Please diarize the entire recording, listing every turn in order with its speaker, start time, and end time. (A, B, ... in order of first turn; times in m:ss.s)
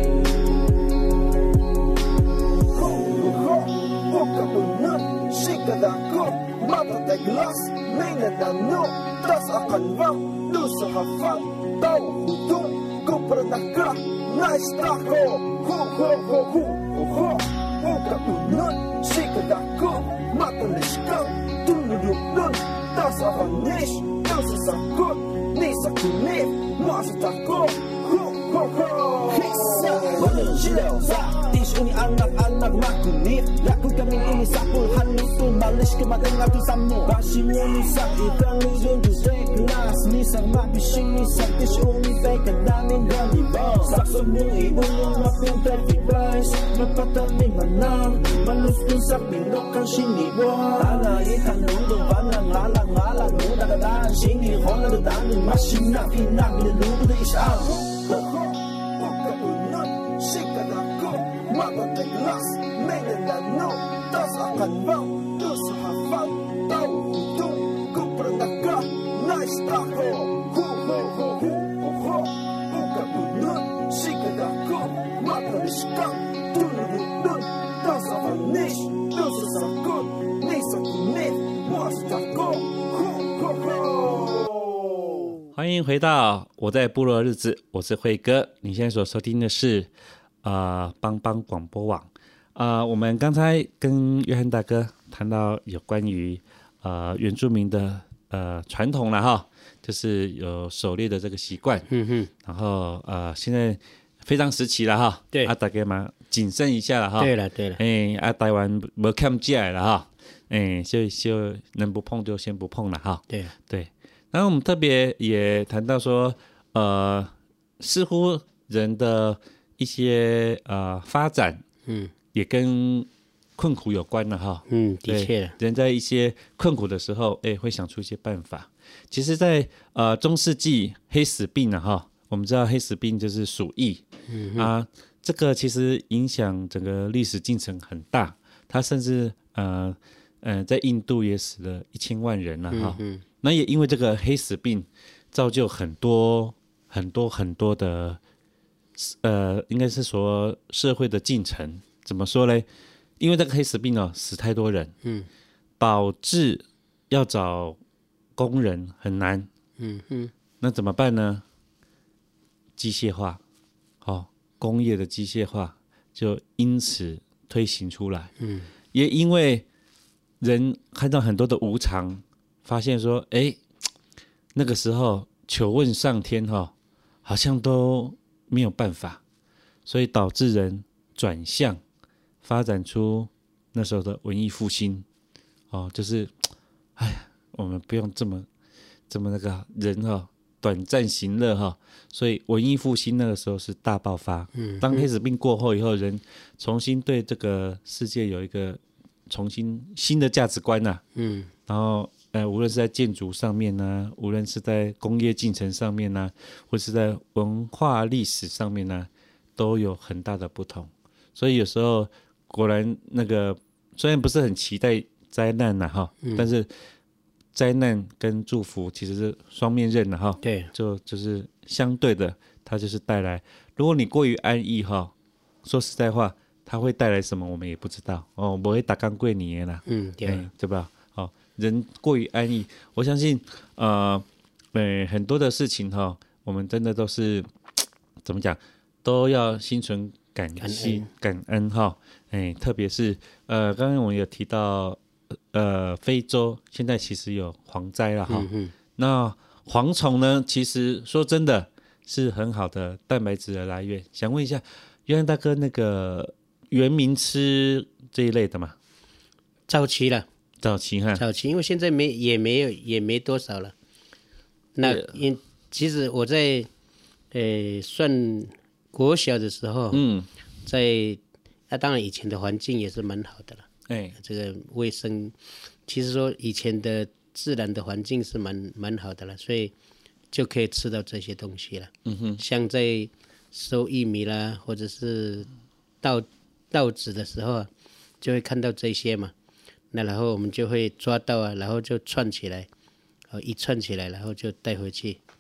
0:02.7-1:24.8 A
1:25.5-1:29.9 B
1:30.4-1:41.9 B
1:41.9-1:42.3 C
1:42.4-2:01.6 B
1:47.2-1:47.8 C
1:53.3-1:53.5 C
2:01.9-2:02.1 C
2:02.3-2:14.0 B
2:04.7-2:05.6 C
2:14.3-2:14.7 C
2:14.6-2:28.2 B
2:22.7-2:23.2 C
2:29.0-2:32.7 B
2:33.2-2:34.9 B
2:35.0-2:35.3 C
2:35.8-2:37.8 B
2:38.4-2:39.5 B
2:39.8-2:40.3 C
2:40.6-2:41.4 B
2:42.8-2:43.4 B
2:44.0-2:48.3 B
2:48.4-2:48.7 C
2:48.9-2:49.6 B
2:50.4-2:53.6 B
2:54.5-2:56.7 B
2:57.2-2:59.2 B
2:59.8-3:01.8 B
3:02.4-3:05.0 B
3:05.7-3:06.4 B
3:07.0-3:08.5 B
3:09.1-3:21.0 B
3:14.5-3:15.1 C
3:21.2-3:21.5 C
3:21.7-3:36.7 B
3:36.2-3:36.5 C
3:37.5-3:45.1 B
3:40.4-3:40.7 C
3:45.6-3:57.5 B
3:49.8-3:50.5 C
3:58.2-4:05.0 B
4:00.6-4:01.1 C
4:05.5-4:18.8 B
4:08.3-4:08.7 C
4:19.7-4:20.2 C
4:20.6-4:21.2 B
4:21.1-4:23.7 C
4:24.8-4:26.7 C
4:24.8-4:25.1 B
4:27.3-4:30.0 C
4:29.9-4:30.3 B
4:30.6-4:35.3 C
4:33.9-4:34.2 B
4:35.8-4:39.7 C
4:40.3-4:45.5 C
4:42.0-4:42.4 B
4:46.0-4:47.7 C
4:48.2-4:49.3 C
4:49.9-4:52.7 C
4:53.3-4:55.2 C